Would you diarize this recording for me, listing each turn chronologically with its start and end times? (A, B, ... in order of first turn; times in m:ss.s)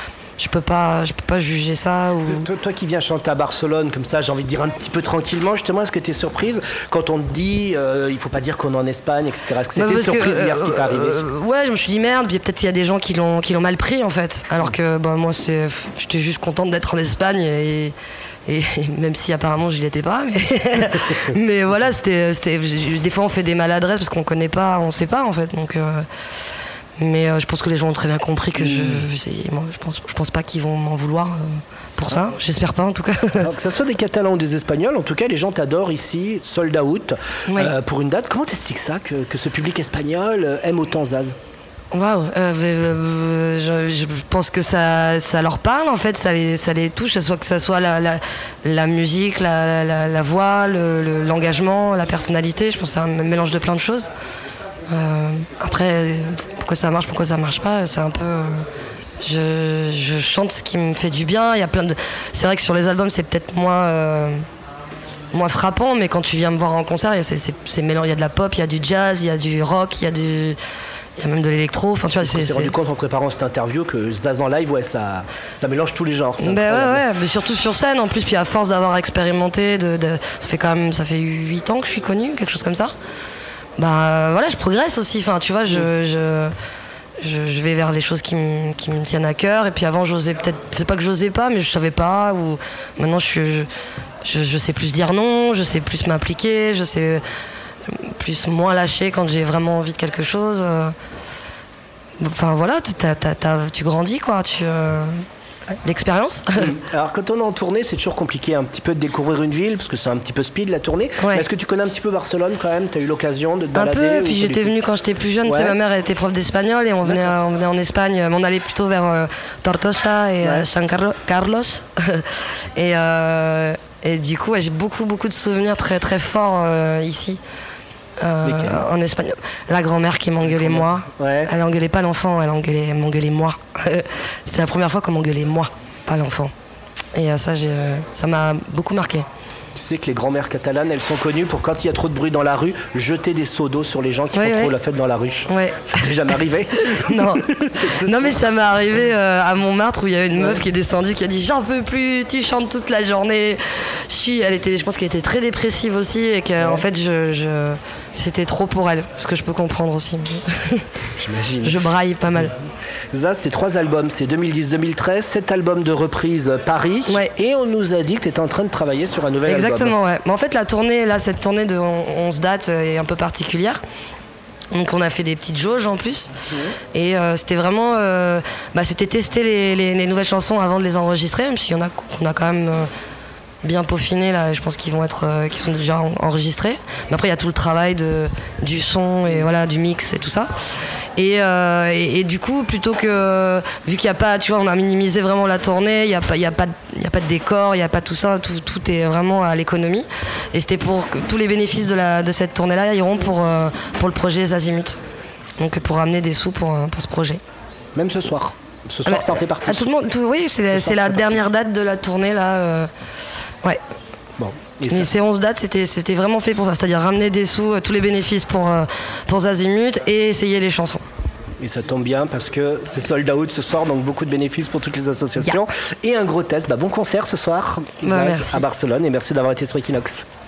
0:00.4-0:02.5 A
0:02.2-0:11.2 B
0:09.8-0:17.9 A
0:18.5-0:26.0 A
0:27.0-0:33.5 A
0:28.6-0:29.0 B
0:33.4-0:41.3 B
0:37.5-0:37.7 A
0:41.9-0:54.1 A
0:54.9-0:58.6 A
0:59.2-1:04.4 A
1:05.3-1:10.6 A
1:11.2-1:12.7 A
1:12.2-1:17.0 B
1:16.4-1:22.9 A
1:23.8-1:26.5 A
1:27.2-1:33.7 A
1:34.2-1:37.2 A
1:37.9-1:40.9 A
1:42.2-1:45.1 A
1:45.8-1:46.7 A
1:46.6-1:54.7 B
1:53.7-2:07.4 A
1:55.4-1:55.8 B
1:57.0-1:57.3 B
2:00.4-2:00.7 B
2:08.2-2:16.5 A
2:08.4-2:08.8 B
2:10.4-2:11.5 B
2:17.1-2:19.2 A
2:19.7-2:28.4 B
2:24.3-2:24.7 A
2:25.5-2:40.9 A
2:30.4-2:30.6 B
2:36.6-2:36.8 B
2:41.2-2:42.5 B
2:41.6-2:42.5 A
2:43.1-2:49.9 B
2:47.1-2:47.3 A
2:49.4-2:53.8 A
2:54.7-2:56.3 A
2:56.5-2:56.7 B
2:56.9-3:02.9 A
3:03.6-3:10.5 A
3:11.2-3:25.0 A
3:25.6-3:27.4 A
3:27.9-3:29.9 B
3:29.0-3:32.9 A
3:30.7-3:31.5 B
3:34.4-3:35.1 B
3:34.9-3:41.0 A
3:41.6-3:50.2 B
3:48.0-3:48.7 A